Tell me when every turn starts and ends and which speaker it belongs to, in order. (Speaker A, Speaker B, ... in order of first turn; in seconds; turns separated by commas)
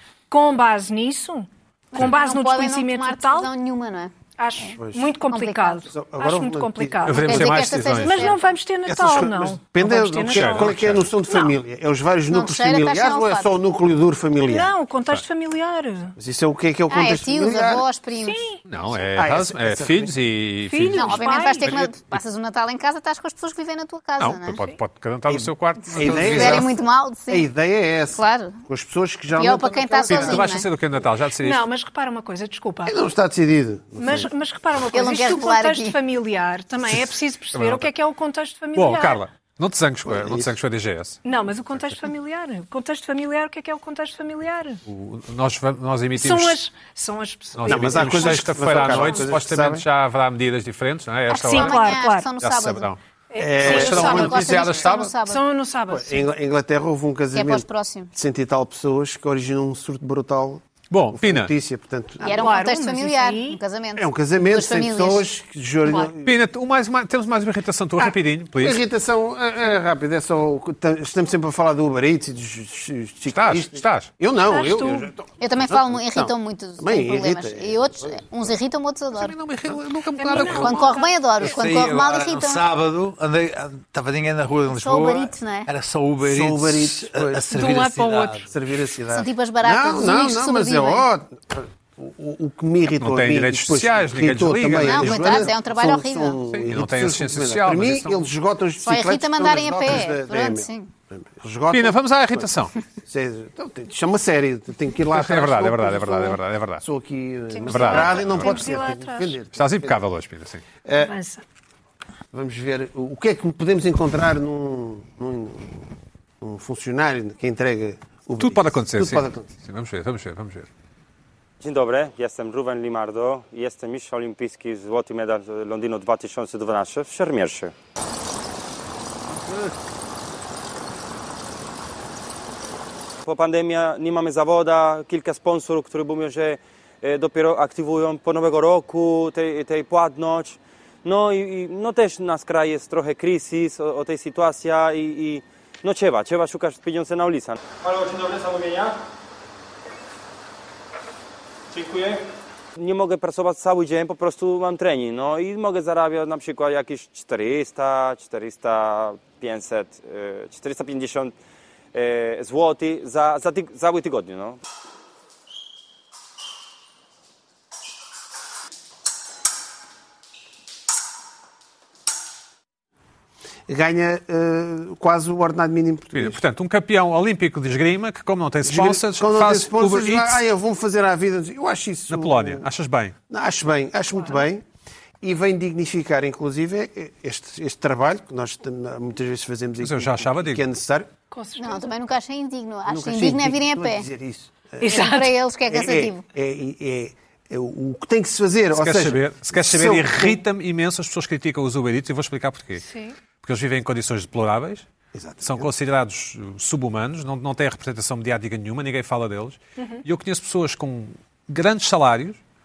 Speaker A: 0.3-3.5, Speaker B: 1.9-4.2, Speaker A: 4.4-11.5, Speaker C: 4.8-5.1, Speaker B: 5.3-5.9, Speaker C: 5.9-7.3, Speaker D: 7.0-8.4, Speaker B: 7.2-8.4, Speaker C: 8.9-14.7, Speaker D: 10.3-11.0, Speaker B: 12.3-13.5, Speaker A: 14.5-16.1, Speaker C: 16.2-17.9, Speaker B: 16.9-18.5, Speaker A: 18.2-18.6, Speaker D: 18.7-22.2, Speaker C: 19.1-20.2, Speaker A: 20.7-21.8, Speaker B: 20.9-24.6, Speaker D: 24.2-26.7, Speaker C: 25.3-30.5, Speaker B: 25.9-27.5, Speaker B: 28.1-28.6, Speaker B: 29.4-30.7, Speaker D: 30.1-31.6, Speaker A: 31.4-33.0, Speaker C: 32.9-34.3, Speaker A: 34.0-39.2, Speaker B: 34.9-36.0, Speaker D: 37.5-37.9, Speaker D: 38.8-41.2, Speaker C: 40.0-40.5, Speaker A: 41.2-44.8, Speaker D: 44.9-46.6, Speaker A: 46.2-49.2, Speaker D: 47.6-53.0, Speaker C: 47.7-49.9, Speaker B: 51.3-52.9, Speaker A: 51.4-52.3, Speaker A: 53.3-54.7, Speaker C: 53.4-54.8, Speaker D: 53.6-55.1, Speaker B: 54.0-55.4, Speaker A: 55.2-56.3, Speaker C: 55.9-60.6, Speaker B: 57.4-58.1, Speaker D: 60.9-61.5, Speaker C: 61.1-62.5, Speaker A: 62.2-63.6, Speaker B: 62.2-65.2, Speaker C: 64.0-66.3, Speaker D: 66.2-68.8, Speaker C: 68.6-78.2, Speaker D: 73.3-74.1, Speaker A: 74.4-75.1, Speaker B: 75.4-79.4, Speaker D: 79.2-81.0, Speaker A: 80.2-81.1, Speaker B: 80.6-82.6, Speaker E: 81.4-88.5, Speaker B: 84.7-85.7, Speaker C: 86.2-102.5, Speaker B: 89.1-91.1, Speaker D: 92.9-95.5, Speaker B: 94.8-96.4, Speaker D: 96.5-98.2, Speaker B: 98.8-100.9, Speaker D: 101.7-102.7, Speaker C: 103.0-110.0, Speaker D: 105.1-106.8, Speaker A: 107.5-109.4, Speaker D: 107.7-108.6, Speaker D: 109.5-110.6, Speaker C: 110.8-111.1, Speaker A: 111.0-111.4, Speaker C: 112.3-119.5, Speaker D: 118.4-120.7, Speaker F: 121.6-127.7, Speaker F: 133.3-149.0, Speaker F: 151.7-152.2, Speaker F: 152.8-161.3, Speaker F: 161.9-164.6, Speaker C: 173.7-176.4, Speaker D: 176.1-180.4, Speaker C: 178.6-182.7, Speaker D: 182.1-183.1, Speaker C: 183.3-184.6, Speaker C: 185.2-191.1, Speaker D: 189.8-190.6, Speaker A: 191.3-191.9, Speaker B: 191.6-194.1, Speaker C: 192.9-200.4, Speaker A: 194.8-195.3, Speaker B: 194.8-196.2, Speaker D: 198.8-202.8, Speaker A: 202.8-203.2, Speaker D: 203.4-204.8, Speaker C: 205.1-205.7, Speaker D: 205.4-212.4